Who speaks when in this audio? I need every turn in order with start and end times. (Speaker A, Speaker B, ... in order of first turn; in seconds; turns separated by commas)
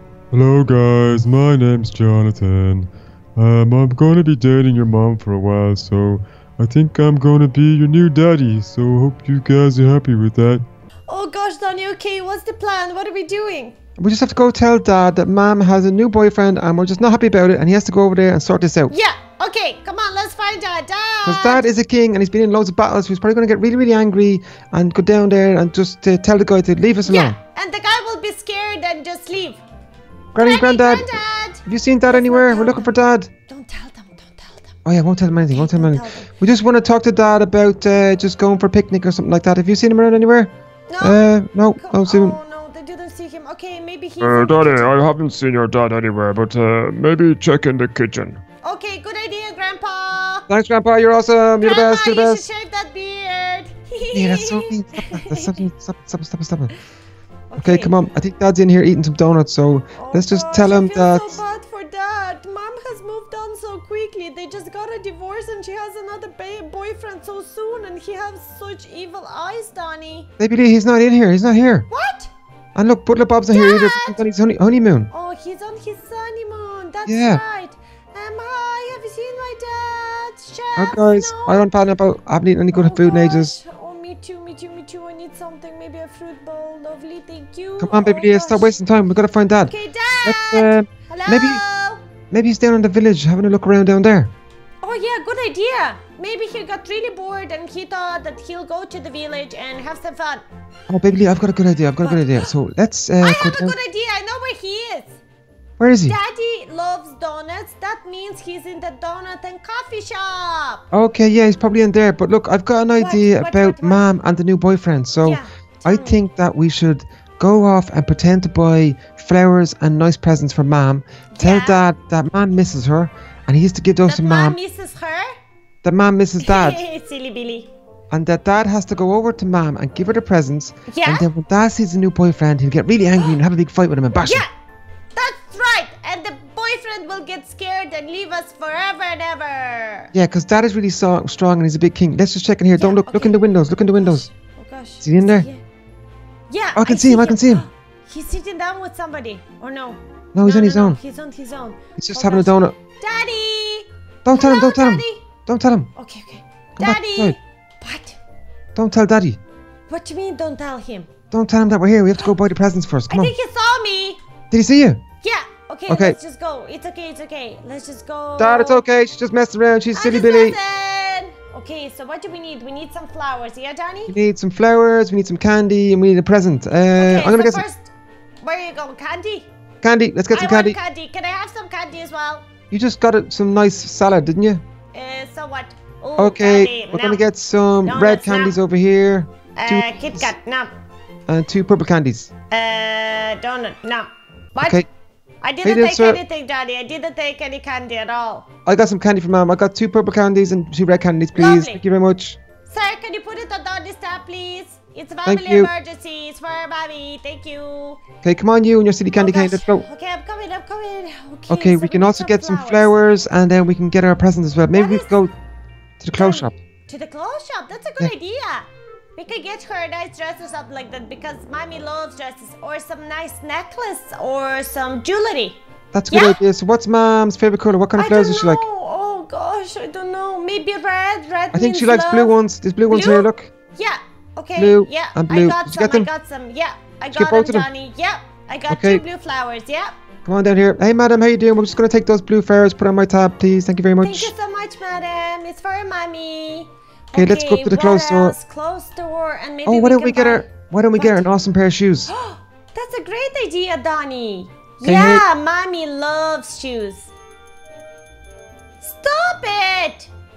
Speaker A: 0.3-10.7, Speaker B: 11.1-13.8, Speaker C: 14.0-18.9, Speaker B: 18.9-21.7, Speaker C: 21.2-27.4, Speaker B: 27.1-29.6, Speaker C: 30.3-31.1, Speaker B: 30.4-33.0, Speaker C: 31.7-33.3, Speaker B: 33.5-34.8, Speaker C: 34.9-42.4, Speaker B: 35.5-36.3, Speaker B: 40.9-44.9, Speaker A: 44.2-48.4, Speaker B: 48.6-50.5, Speaker C: 50.5-52.5, Speaker B: 51.6-55.6, Speaker C: 54.1-56.7, Speaker B: 57.5-58.0, Speaker C: 57.6-61.4, Speaker B: 60.0-70.3, Speaker C: 70.4-71.9, Speaker B: 71.9-72.3, Speaker C: 72.8-75.1, Speaker B: 73.5-74.2, Speaker B: 75.1-81.6, Speaker C: 77.1-77.4, Speaker C: 80.8-83.6, Speaker B: 82.7-88.7, Speaker C: 87.8-91.6, Speaker B: 89.7-92.0, Speaker C: 92.3-94.3, Speaker B: 94.8-100.4, Speaker C: 100.9-103.8, Speaker B: 102.0-102.5, Speaker B: 103.2-105.2, Speaker C: 105.8-106.2, Speaker B: 106.1-110.8, Speaker C: 110.9-124.6, Speaker B: 113.0-114.1, Speaker B: 115.2-116.2, Speaker B: 121.3-121.9, Speaker B: 124.1-125.3, Speaker C: 125.8-126.8, Speaker B: 126.4-127.7, Speaker C: 128.1-134.4, Speaker B: 130.9-131.3, Speaker B: 134.2-134.5, Speaker B: 135.2-140.1, Speaker C: 140.1-144.3, Speaker B: 142.8-143.4, Speaker B: 144.0-145.6, Speaker C: 145.0-145.5, Speaker B: 146.5-155.2, Speaker C: 146.8-147.7, Speaker C: 150.3-151.0, Speaker C: 152.0-152.8, Speaker C: 154.2-155.9, Speaker B: 156.0-158.2, Speaker C: 156.8-157.4, Speaker C: 158.8-159.4, Speaker B: 159.9-161.1, Speaker C: 161.3-163.3, Speaker B: 163.1-164.2, Speaker C: 164.5-165.0, Speaker B: 165.2-168.8, Speaker C: 165.9-166.2, Speaker C: 168.4-170.6, Speaker B: 169.9-174.1, Speaker C: 174.1-177.7, Speaker B: 177.0-179.5, Speaker C: 179.8-180.8, Speaker B: 180.3-182.5, Speaker C: 182.7-184.6, Speaker B: 184.9-187.2, Speaker C: 186.2-190.3, Speaker B: 187.8-188.6, Speaker B: 189.6-190.7, Speaker C: 191.3-192.3, Speaker B: 192.5-194.8, Speaker C: 194.6-194.9, Speaker B: 195.4-198.5, Speaker C: 195.6-196.2, Speaker C: 198.7-202.4, Speaker B: 201.3-201.8, Speaker B: 202.7-208.0, Speaker C: 205.2-205.7, Speaker C: 208.2-209.9, Speaker B: 209.1-212.9, Speaker C: 211.5-215.3, Speaker B: 214.7-215.2, Speaker C: 216.0-216.5, Speaker B: 216.2-226.4, Speaker C: 225.9-228.6, Speaker B: 228.0-232.3, Speaker C: 231.5-233.5, Speaker B: 232.9-239.9, Speaker C: 234.6-236.1, Speaker C: 237.1-237.7, Speaker C: 238.7-239.0, Speaker C: 240.2-244.3, Speaker B: 244.0-250.5, Speaker C: 247.1-248.4, Speaker C: 249.7-252.1, Speaker B: 251.0-251.3, Speaker B: 252.1-257.1, Speaker C: 254.8-255.2, Speaker B: 258.8-260.1